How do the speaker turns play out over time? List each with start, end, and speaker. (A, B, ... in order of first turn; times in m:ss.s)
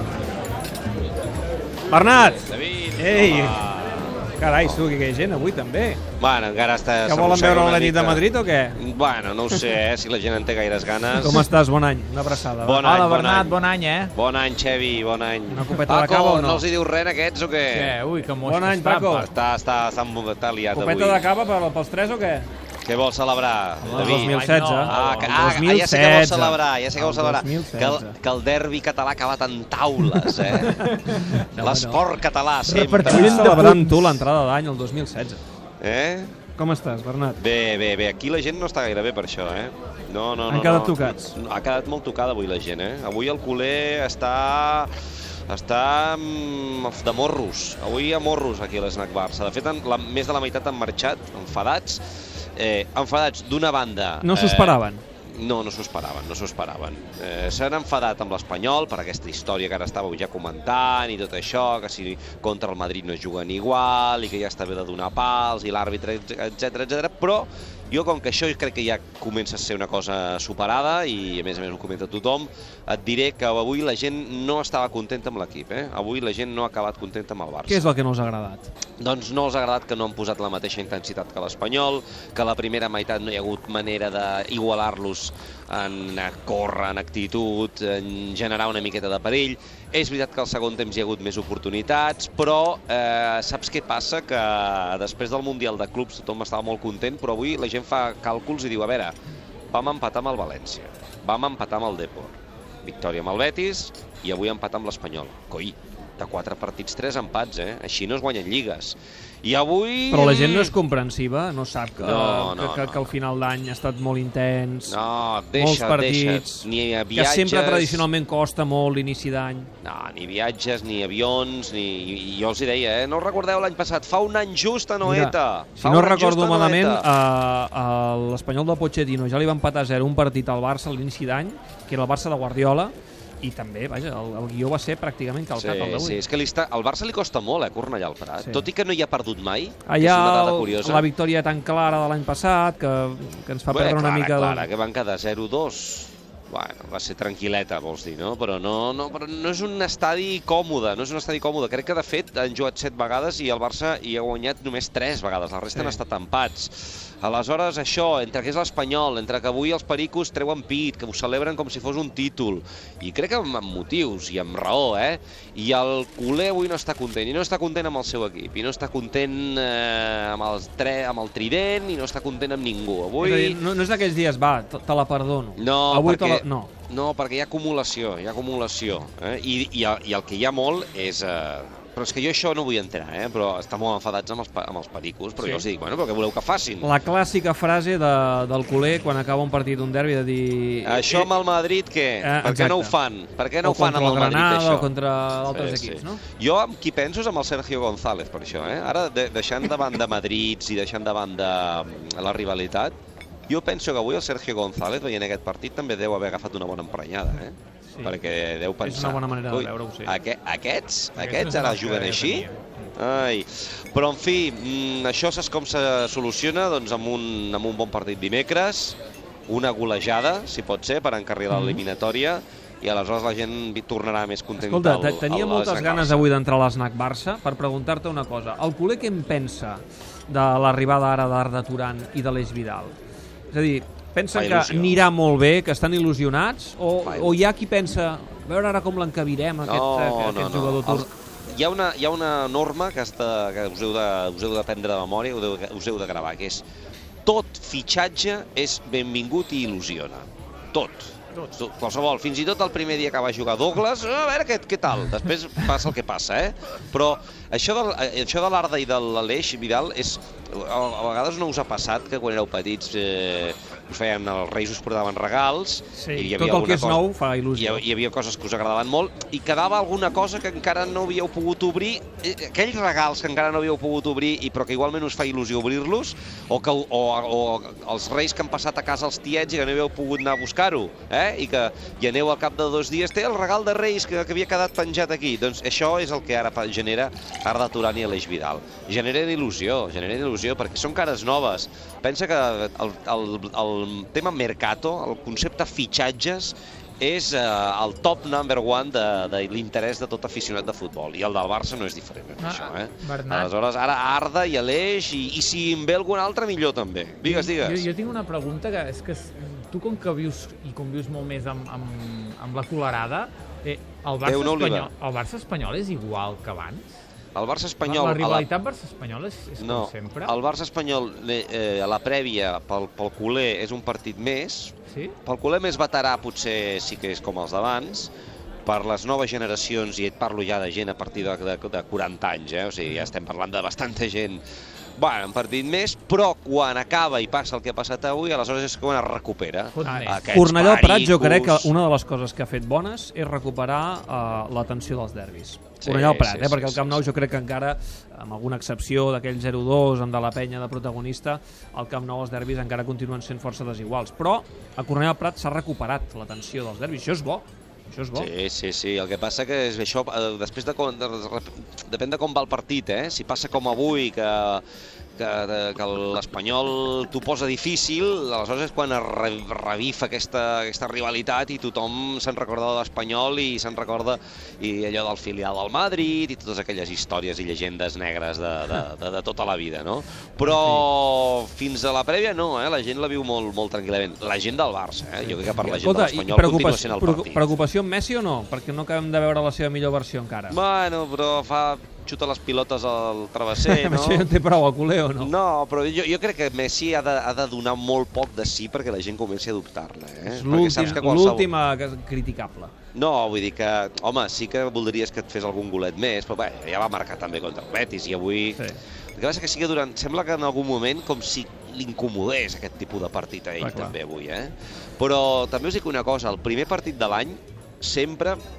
0:01.9-0:03.7 A
0:02.4-0:04.8 B
0:04.4-0:06.0 A
0:06.2-0:11.5 B
0:07.0-0:08.8 A
0:11.2-0:12.9 A
0:12.6-0:13.6 B
0:12.8-0:14.1 C
0:14.1-0:18.0 B
0:15.5-0:16.6 A
0:17.7-0:19.3 C
0:18.4-0:19.3 A
0:19.1-0:21.2 B
0:20.7-0:22.5 A
0:22.8-0:33.7 B
0:23.8-0:28.2 A
0:23.9-0:25.5 C
0:30.2-0:32.0 A
0:32.7-0:35.4 A
0:32.7-0:34.0 C
0:35.8-0:36.3 B
0:36.6-0:37.4 A
0:37.4-0:44.9 B
0:40.5-0:41.4 A
0:45.5-0:52.0 B
0:52.6-1:17.9 B
0:54.2-0:55.0 A
1:17.7-1:18.7 A
1:19.0-1:39.2 B
1:39.7-1:50.7 B
1:50.1-1:55.0 A
1:52.0-1:53.1 B
1:54.9-1:58.1 B
1:55.5-1:59.7 A
1:59.8-2:07.1 B
2:05.0-2:16.2 A
2:15.6-2:21.1 B
2:18.4-2:18.7 A
2:19.9-2:24.7 A
2:23.7-2:53.6 B
2:35.7-2:36.0 A
2:53.2-2:56.7 A
2:55.6-3:06.9 B
3:05.4-3:05.7 A
3:06.8-3:11.3 A
3:10.9-3:14.9 B
3:12.2-3:13.0 A
3:13.6-3:16.2 A
3:15.5-3:23.0 B
3:23.5-3:46.3 B
3:27.9-3:28.2 A
3:28.8-3:30.2 A
3:31.2-3:32.7 C
3:41.5-3:41.8 A
3:44.6-3:52.9 A
3:53.5-4:01.1 A
3:54.3-3:55.0 B
3:57.0-3:57.4 B
3:59.6-4:06.6 B
4:07.2-4:27.0 B
4:26.0-4:27.8 A
4:27.6-5:07.9 B
5:02.4-5:03.5 C
5:07.2-5:16.9 C
5:14.2-5:14.9 B
5:17.4-5:18.5 B
5:17.8-5:20.3 C
5:19.6-5:28.1 B
5:28.7-5:34.4 B
5:35.0-5:41.7 B
5:39.7-5:40.3 C
5:39.8-5:58.3 A
5:45.8-5:47.0 B
5:58.2-6:04.6 B
6:05.2-6:27.5 B
6:20.5-6:20.9 A
6:25.2-6:30.6 A
6:30.5-6:34.3 B
6:33.6-6:35.3 A
6:35.2-6:41.5 B
6:40.3-6:42.7 A
6:42.9-6:48.6 B
6:49.2-6:58.4 B
6:53.6-6:54.0 A